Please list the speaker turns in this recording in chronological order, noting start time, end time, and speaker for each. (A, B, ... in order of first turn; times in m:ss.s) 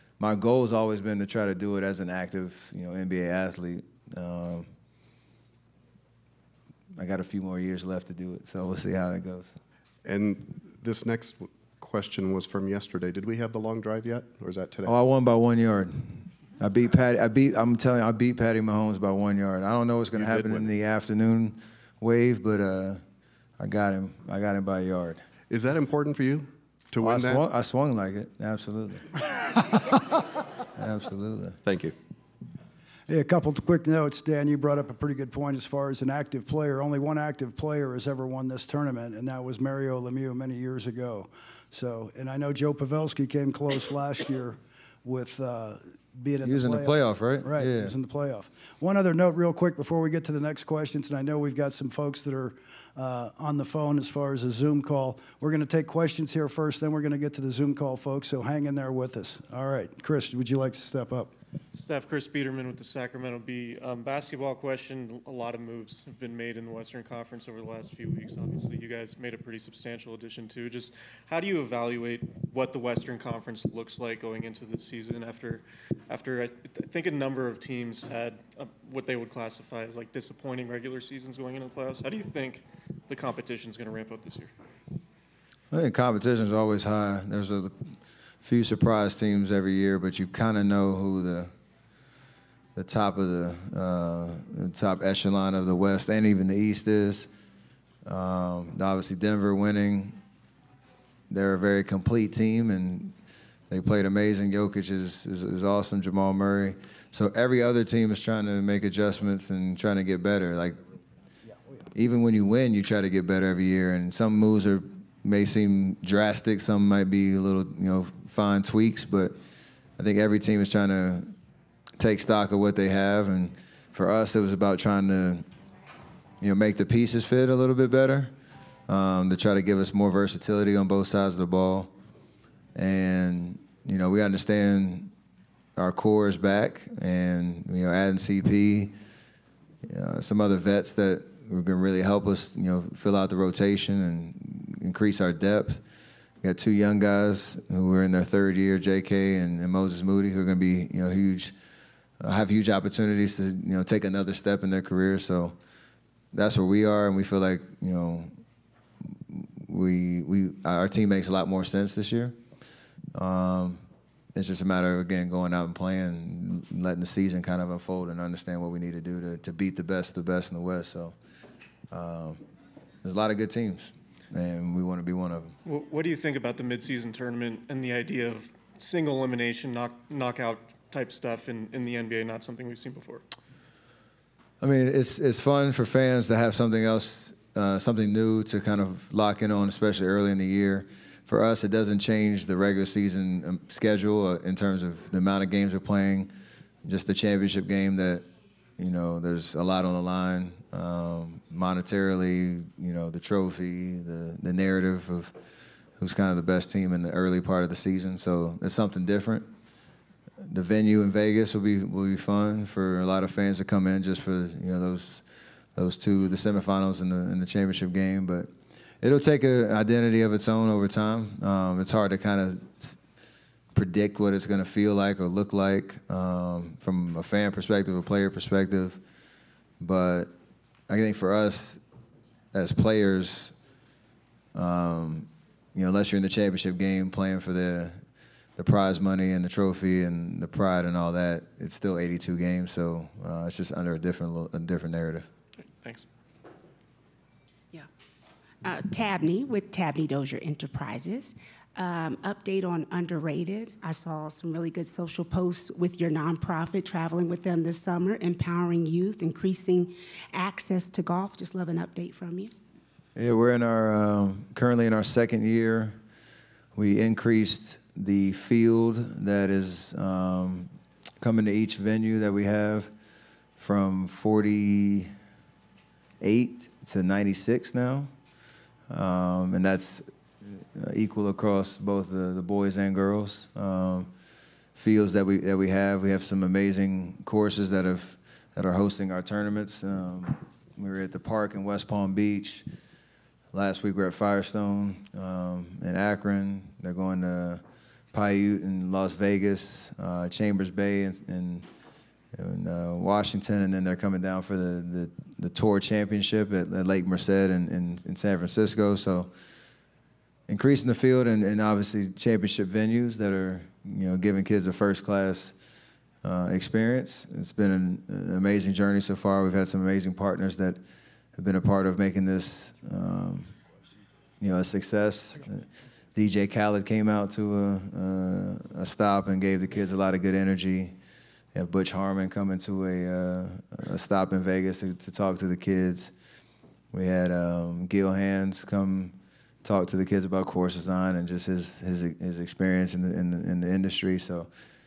0:00.2-0:04.7 A
0:07.0-0:09.6 A
0:10.0-0:14.9 B
0:14.8-0:23.0 A
0:20.2-0:20.7 B
0:23.6-0:25.2 A
0:25.5-0:27.4 B
0:27.0-0:29.2 A
0:30.8-0:31.6 A
0:31.6-0:31.9 B
0:33.1-1:01.3 C
0:46.4-0:47.9 A
1:01.7-1:24.5 D
1:25.7-1:31.5 A
1:32.8-1:37.3 A
1:38.0-1:40.2 A
1:41.3-1:43.2 A
1:43.7-1:50.8 A
1:51.9-1:59.4 A
2:00.0-2:01.3 A
2:02.0-2:05.5 A
2:06.4-2:08.3 A
2:08.9-2:11.9 A
2:12.8-2:15.1 A
2:15.8-2:18.9 A
2:19.8-2:25.8 A
2:26.4-2:31.6 A
2:32.2-2:35.6 A
2:36.3-2:38.3 A
2:39.0-2:42.4 A
2:43.1-2:51.2 A
2:51.9-2:52.4 A
2:53.0-2:55.6 A
2:55.7-3:03.2 D
3:04.6-3:16.3 A
3:16.8-3:18.3 A
3:18.8-3:25.3 A
3:26.0-3:29.5 A
3:30.4-3:35.2 A
3:35.8-3:43.0 A
3:43.7-3:49.0 A
3:49.8-3:50.3 A
3:50.9-3:51.8 A
3:52.5-3:53.5 A
3:54.5-3:58.0 A
3:58.6-4:05.3 A
4:05.6-4:06.1 D
4:08.6-4:22.5 E
4:23.2-4:26.0 A
4:26.8-4:30.7 A
4:31.2-4:32.9 A
4:33.6-4:35.1 A
4:36.2-4:38.1 A
4:38.9-4:44.1 A
4:44.8-4:52.7 A
4:53.5-4:57.6 A
4:58.1-5:01.7 A
5:02.3-5:09.3 A
5:10.5-5:15.6 A
5:16.2-5:20.8 A
5:21.4-5:23.5 A
5:24.4-5:31.0 A
5:31.5-5:36.1 A
5:36.9-5:44.5 A